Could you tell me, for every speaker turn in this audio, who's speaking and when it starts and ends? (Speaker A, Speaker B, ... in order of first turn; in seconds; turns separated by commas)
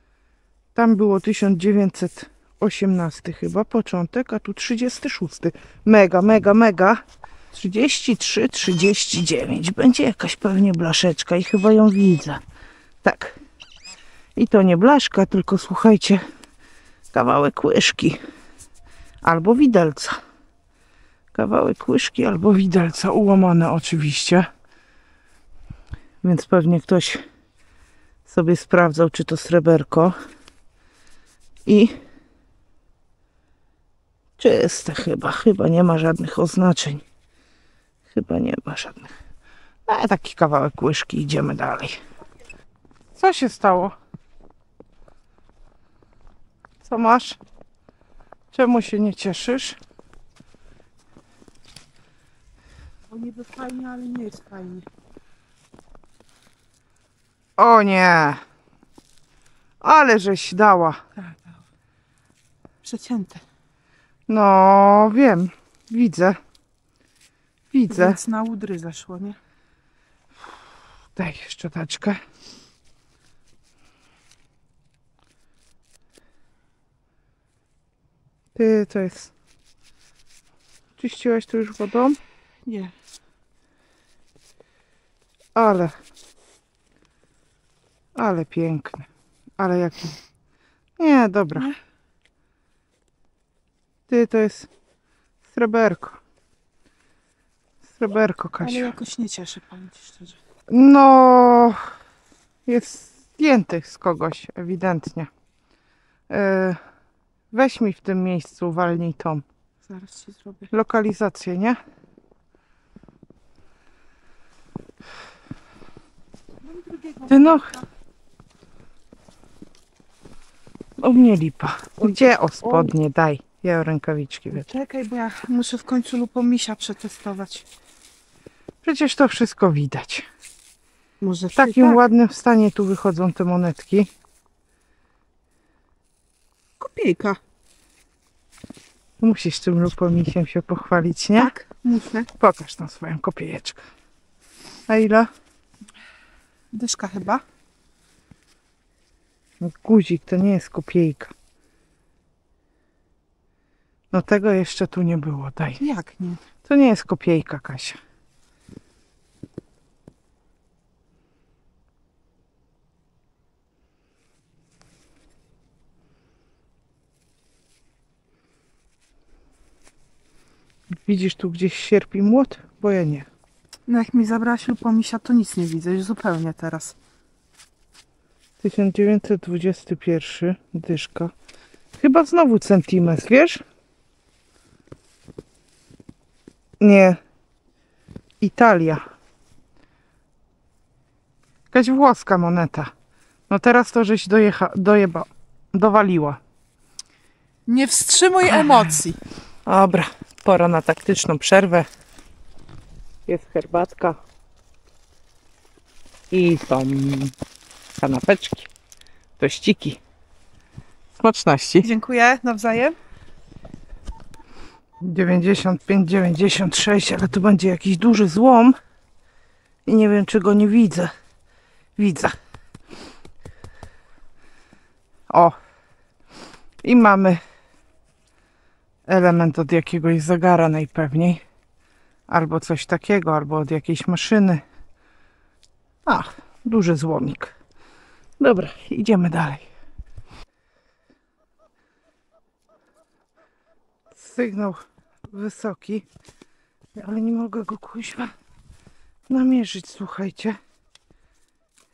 Speaker A: 0.8-7.0, Speaker A: 7.5-12.4, Speaker A: 13.0-13.4, Speaker A: 14.4-16.2, Speaker A: 17.1-18.2, Speaker A: 19.2-20.2, Speaker A: 21.3-24.5, Speaker A: 26.2-27.2, Speaker A: 28.3-30.1, Speaker A: 31.7-31.9, Speaker A: 34.4-37.0, Speaker A: 38.1-39.1, Speaker A: 39.9-42.0, Speaker A: 43.2-44.0, Speaker A: 46.8-47.4, Speaker A: 48.5-49.8, Speaker B: 53.1-54.9, Speaker A: 57.6-58.4, Speaker A: 59.8-61.0, Speaker B: 61.2-61.6, Speaker B: 62.8-63.4, Speaker A: 64.3-66.4, Speaker A: 67.7-68.2, Speaker B: 67.9-69.4, Speaker A: 71.2-72.2, Speaker A: 78.5-79.3, Speaker A: 81.0-82.2, Speaker B: 82.7-82.9, Speaker A: 85.5-85.9, Speaker A: 88.2-89.1, Speaker A: 89.6-90.2, Speaker A: 91.0-91.7, Speaker A: 94.1-94.7, Speaker A: 95.5-96.2, Speaker A: 98.0-98.9, Speaker B: 98.6-100.4, Speaker A: 100.7-101.8, Speaker A: 102.7-105.3, Speaker A: 106.3-106.8, Speaker A: 107.5-109.5, Speaker B: 109.9-110.7, Speaker A: 110.7-111.8, Speaker B: 116.6-117.8, Speaker A: 117.3-117.8, Speaker A: 121.0-124.7, Speaker B: 122.0-122.9, Speaker B: 124.5-127.7, Speaker A: 128.8-130.3, Speaker B: 131.2-132.0, Speaker A: 131.6-134.1, Speaker B: 136.8-137.4, Speaker A: 139.2-141.5, Speaker B: 141.4-142.3, Speaker A: 142.4-143.9, Speaker A: 144.9-145.3, Speaker B: 146.7-147.4, Speaker A: 149.6-151.3, Speaker A: 154.1-155.8, Speaker B: 155.8-156.4, Speaker A: 156.7-158.0, Speaker A: 171.0-173.3, Speaker B: 173.9-177.0, Speaker A: 178.6-181.3, Speaker A: 182.0-183.6, Speaker A: 186.8-187.2, Speaker A: 188.4-189.0, Speaker A: 191.7-192.9, Speaker A: 193.5-196.4, Speaker B: 197.7-199.2, Speaker A: 199.7-201.9, Speaker A: 203.3-204.2, Speaker A: 206.3-207.3, Speaker A: 208.0-208.7, Speaker A: 209.4-210.0, Speaker A: 211.2-211.9, Speaker B: 211.8-213.0, Speaker A: 215.0-218.8, Speaker A: 219.9-221.1, Speaker A: 222.0-222.3, Speaker A: 225.3-225.6, Speaker A: 226.8-227.4, Speaker A: 229.1-231.4, Speaker A: 232.3-234.6, Speaker A: 236.1-237.5, Speaker A: 238.4-239.7, Speaker A: 244.1-246.1, Speaker A: 247.0-248.3, Speaker A: 249.3-250.6